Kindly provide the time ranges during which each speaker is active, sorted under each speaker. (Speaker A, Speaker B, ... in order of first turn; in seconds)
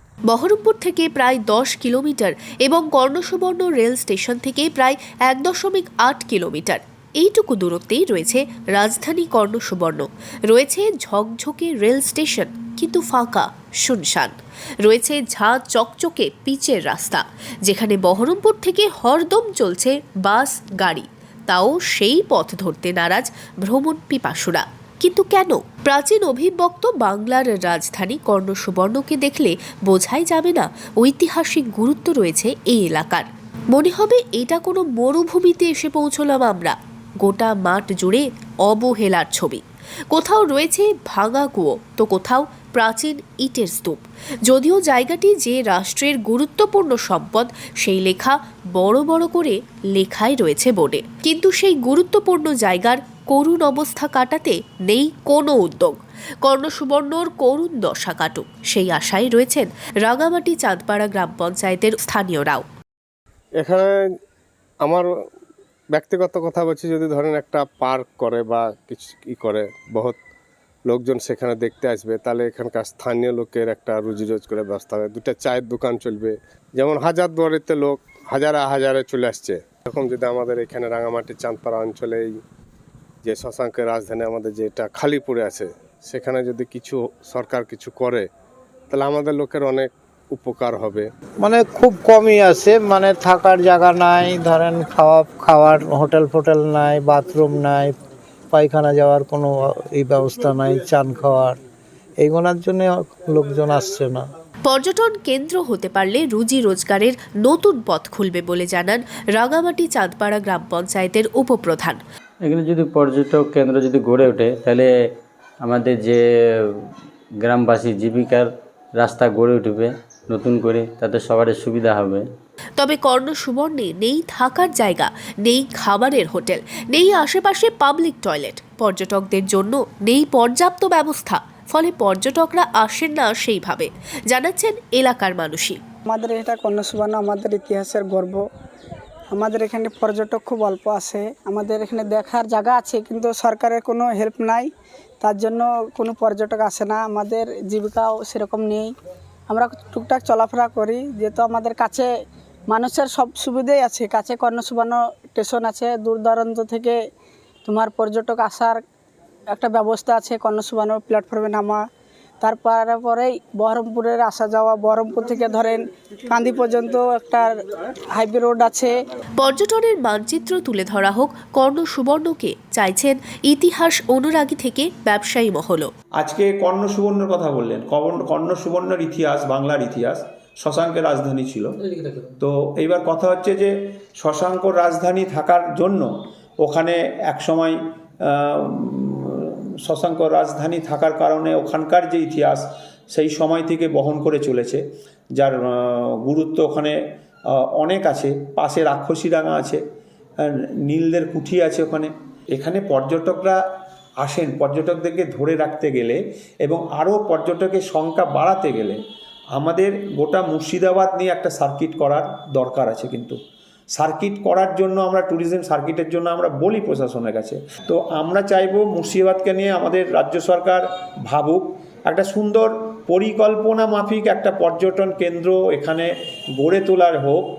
Speaker A: 0.3-62.6, 104.7-112.0, 122.8-135.8, 169.4-175.9
Speaker B: 63.6-63.9, 65.9-70.2, 70.9-82.3, 83.2-88.3, 88.9-91.1
Speaker C: 91.4-97.9, 98.5-101.6, 102.2-104.2
Speaker D: 112.4-114.9, 115.6-116.2, 117.4-122.2
Speaker E: 136.1-138.4, 139.3-144.7, 145.2-148.9, 149.5-152.1, 152.7-156.9, 157.7-158.8, 159.5-161.8, 162.4-167.5, 168.1-168.9
Speaker F: 176.2-181.7, 182.4-186.1, 186.6-194.8, 195.4-196.9, 197.5-199.8, 200.4-203.6, 204.2-209.0, 209.5-213.4, 214.0-226.1, 226.6-227.5